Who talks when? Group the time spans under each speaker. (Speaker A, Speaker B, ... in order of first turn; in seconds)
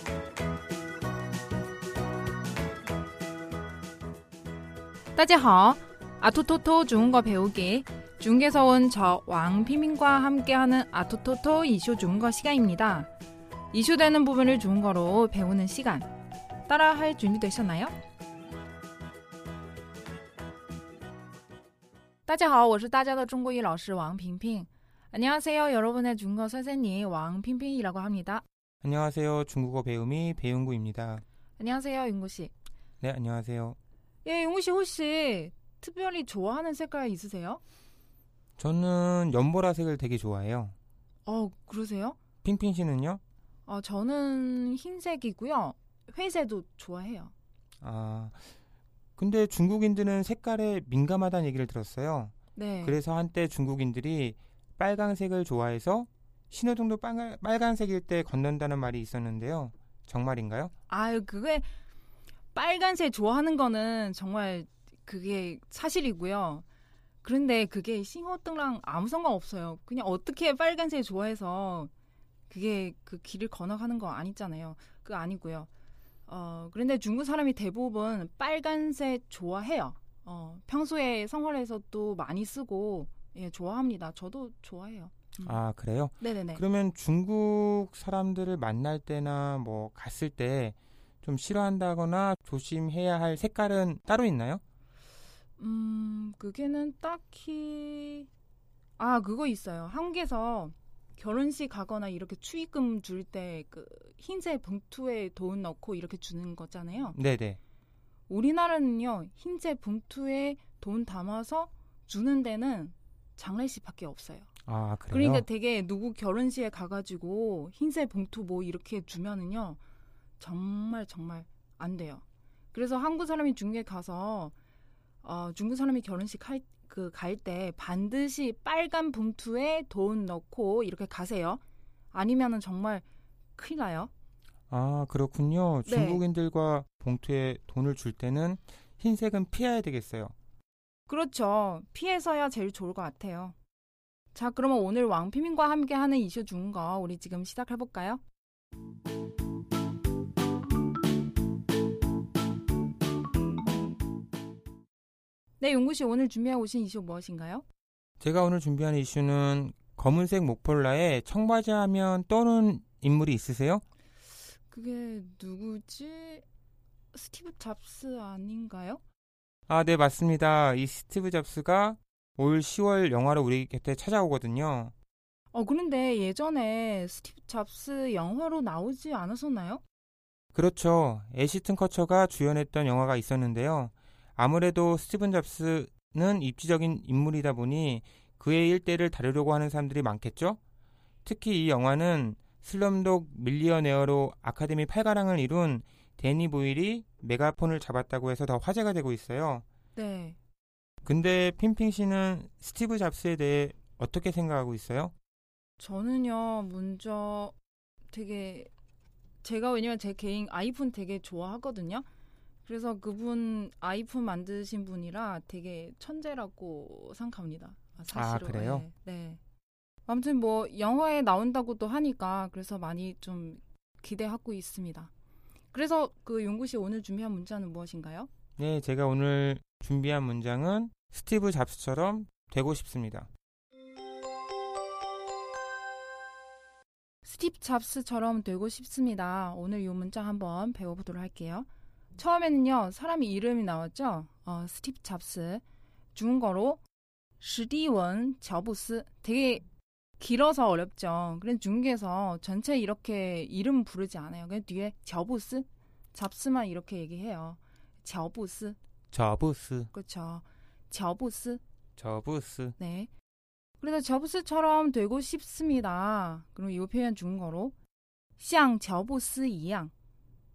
Speaker A: 5.2-13.1, 13.7-16.1, 16.6-17.9, 22.2-28.4, 31.6-32.5, 34.2-37.6, 41.2-42.2, 43.6-47.3, 52.5-53.0, 60.9-61.7, 62.5-66.6, 67.2-71.9, 72.5-75.7, 76.3-85.6, 86.2-86.6, 95.6-98.3, 99.0-107.2, 108.3-114.5, 115.1-119.8, 120.4-124.5, 125.2-131.6, 132.1-133.0, 133.6-134.1, 135.8-136.2, 141.1-143.6, 144.3-148.2, 155.6-157.6, 164.7-166.4, 167.1-169.0, 175.5-179.8, 199.9-200.4, 205.8-207.5, 208.1-208.7, 209.4-212.0, 212.6-219.4, 220.1-225.1, 225.7-228.3, 237.2-245.6, 246.1-246.8, 247.4-249.6, 250.2-258.8, 259.9-261.6, 262.8-263.1, 263.8-267.7, 268.4-269.9
Speaker B: 28.8-31.2, 33.0-33.8, 38.6-40.7, 42.4-43.2, 47.8-48.4, 49.2-60.7, 85.4-94.6, 107.1-107.6, 114.7-115.4, 134.7-140.3, 158.2-163.8, 169.7-174.9, 180.5-190.6, 191.2-199.6, 201.0-205.1, 218.1-218.8, 228.6-233.3, 259.1-259.9, 262.0-262.8